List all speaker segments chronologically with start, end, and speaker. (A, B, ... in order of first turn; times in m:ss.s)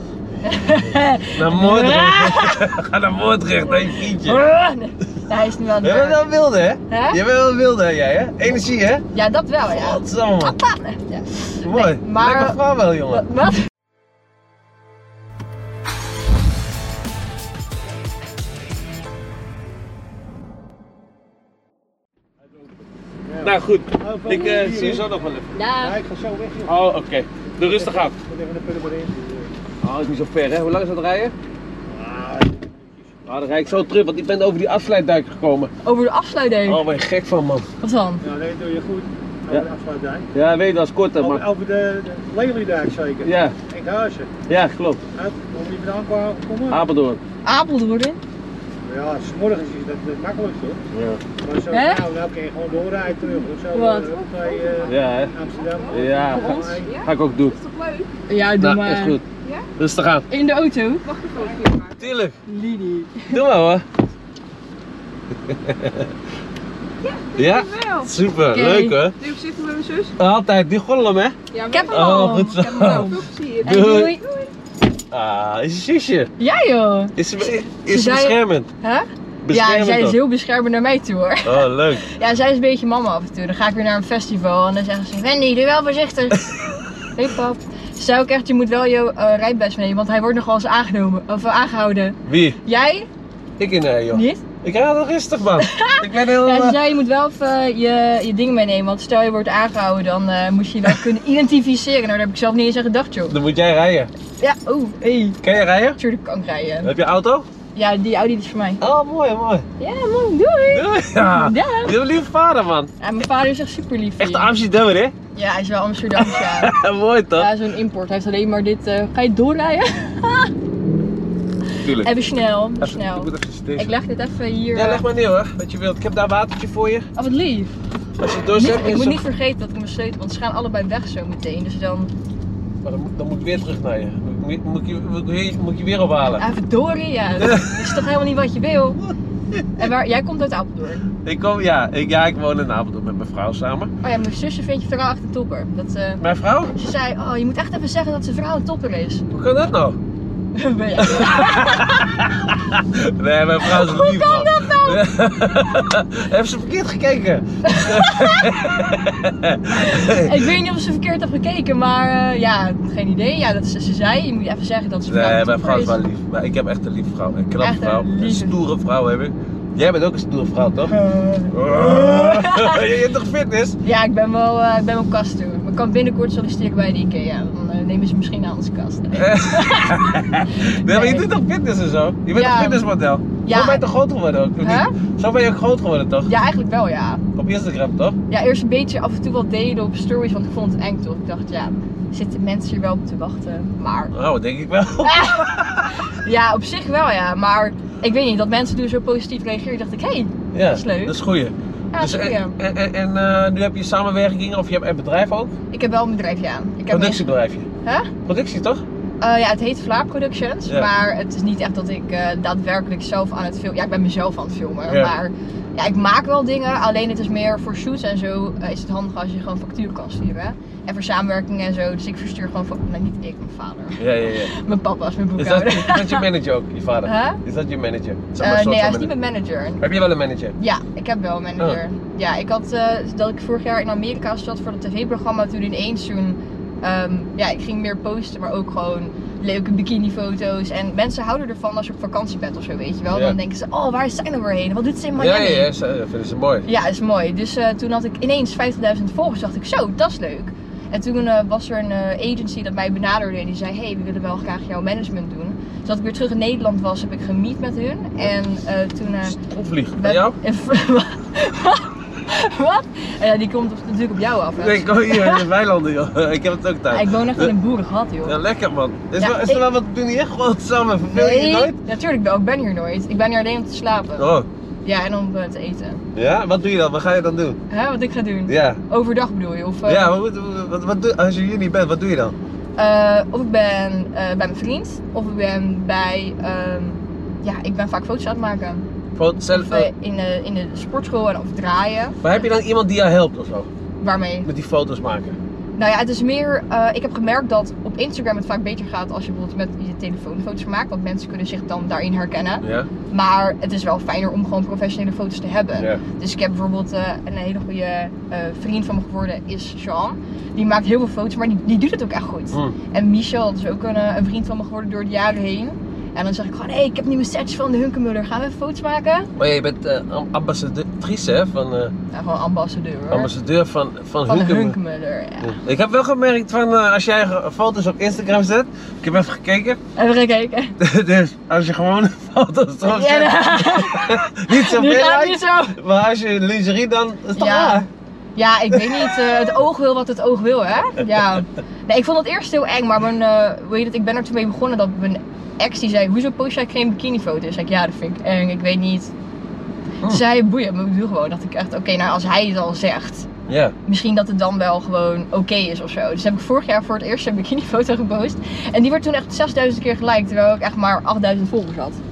0:00.4-0:02.7 A
0:01.3-0:04.4 B
0:03.9-0:06.2 A
0:05.8-0:09.0 B
0:06.9-0:07.2 A
0:09.1-0:13.7 A
0:09.6-0:10.6 B
0:11.6-0:13.2 B
0:23.3-0:25.1 C
0:23.4-0:25.6 B
0:25.6-0:26.0 A
0:25.6-0:26.8 C
0:26.6-0:28.1 B
0:27.5-0:29.5 C
0:29.8-0:31.3 B
0:31.9-0:33.9 C
0:33.2-0:35.7 B
0:35.8-0:36.8 A
0:36.6-0:37.7 B
0:37.8-0:38.2 A
0:38.2-0:40.3 C
0:40.3-0:41.4 B
0:41.2-0:44.4 C
0:43.2-0:43.6 B
0:44.5-0:45.0 B
0:45.1-0:46.8 C
0:46.7-0:47.2 B
0:47.4-0:48.2 A
0:48.8-0:50.8 C
0:50.9-0:51.2 B
0:51.4-0:56.9 C
0:51.7-0:52.0 A
0:53.7-0:54.2 A
0:54.2-0:58.2 D
0:54.8-0:55.3 B
0:55.9-0:57.6 B
0:56.3-0:56.8 A
0:58.3-0:59.2 A
0:58.6-0:59.2 B
0:59.4-0:59.7 D
0:59.8-1:00.2 B
1:00.3-1:01.0 A
1:01.0-1:02.1 D
1:02.0-1:02.4 B
1:02.5-1:03.4 A
1:03.3-1:03.8 B
1:05.4-1:06.1 B
1:07.0-1:08.1 D
1:07.4-1:09.2 B
1:08.5-1:09.0 A
1:09.2-1:10.2 D
1:10.2-1:11.4 B
1:11.5-1:14.3 D
1:11.7-1:14.2 A
1:11.9-1:14.2 B
1:15.1-1:16.3 B
1:16.4-1:17.2 A
1:17.2-1:18.7 B
1:17.7-1:33.1 A
1:19.4-1:20.2 B
1:21.4-1:22.1 B
1:32.3-1:32.6 B
1:33.6-1:36.8 B
1:34.1-1:34.4 A
1:35.6-1:43.4 A
1:43.3-1:44.1 B
1:44.4-1:45.4 A
1:45.4-1:46.0 B
1:46.0-1:46.9 A
1:46.8-1:47.5 B
1:47.7-1:48.8 A
1:48.8-1:49.7 B
1:49.8-1:52.0 A
1:50.7-1:52.9 B
1:53.0-1:54.5 A
1:54.2-1:55.1 B
1:55.3-1:56.8 A
1:56.2-1:57.5 B
1:57.4-2:00.5 A
2:01.8-2:05.0 A
2:01.8-2:02.1 B
2:02.8-2:03.9 B
2:04.7-2:07.1 B
2:07.2-2:07.7 A
2:08.2-2:09.2 B
2:08.5-2:12.1 A
2:12.8-2:16.4 B
2:16.4-2:19.0 A
2:17.4-2:18.0 B
2:19.5-2:19.9 B
2:19.8-2:21.0 A
2:21.2-2:23.9 B
2:24.0-2:26.2 A
2:26.2-2:26.7 B
2:26.7-2:29.2 A
2:29.3-2:30.0 B
2:30.5-2:32.3 A
2:31.0-2:40.5 B
2:33.6-2:35.0 A
2:37.6-2:38.8 A
2:39.7-2:46.0 A
2:45.1-2:50.9 B
2:47.6-2:48.6 A
2:50.8-2:52.8 A
2:51.5-2:53.8 B
2:53.8-3:01.3 A
2:59.1-3:06.3 B
3:02.3-3:02.9 A
3:03.4-3:03.9 A
3:04.6-3:04.9 A
3:06.3-3:07.2 A
3:07.3-3:08.2 B
3:08.3-3:14.1 A
3:14.1-3:16.0 B
3:15.0-3:21.2 A
3:20.5-3:25.5 B
3:21.9-3:22.5 A
3:25.7-3:27.2 A
3:26.9-3:27.7 B
3:27.8-3:28.1 A
3:28.2-3:28.8 B
3:29.2-3:46.3 A
3:34.9-3:35.1 B
3:44.0-3:44.5 B
3:45.4-3:49.1 B
3:47.0-3:47.4 A
3:48.4-3:49.8 A
3:49.8-3:50.5 B
3:50.6-4:05.7 A
4:03.1-4:03.4 B
4:05.2-4:06.7 B
4:06.6-4:19.4 A
4:19.2-4:20.4 B
4:20.0-4:25.5 A
4:24.6-4:27.5 B
4:26.9-4:28.4 A
4:28.2-4:31.8 B
4:29.2-4:29.6 A
4:31.1-4:34.3 A
4:34.2-4:34.5 B
4:34.8-4:36.0 A
4:36.1-4:37.6 B
4:37.7-4:40.1 A
4:38.5-4:38.8 B
4:39.8-4:42.3 B
4:42.8-4:48.8 A
4:49.2-4:49.9 B
4:49.5-4:52.2 A
4:52.2-4:53.7 B
4:54.0-4:54.5 A
4:54.4-4:55.4 B
4:55.8-5:19.3 A
5:02.6-5:02.9 B
5:19.4-5:21.9 B
5:22.1-5:23.3 A
5:23.1-5:24.8 B
5:24.2-5:25.5 A
5:25.4-5:29.8 B
5:30.0-5:30.8 A
5:30.8-5:37.9 B
5:32.8-5:35.8 A
5:37.3-5:49.1 A
5:38.7-5:39.3 B
5:50.0-5:53.3 A
5:53.5-5:53.7 B
5:53.8-6:02.0 A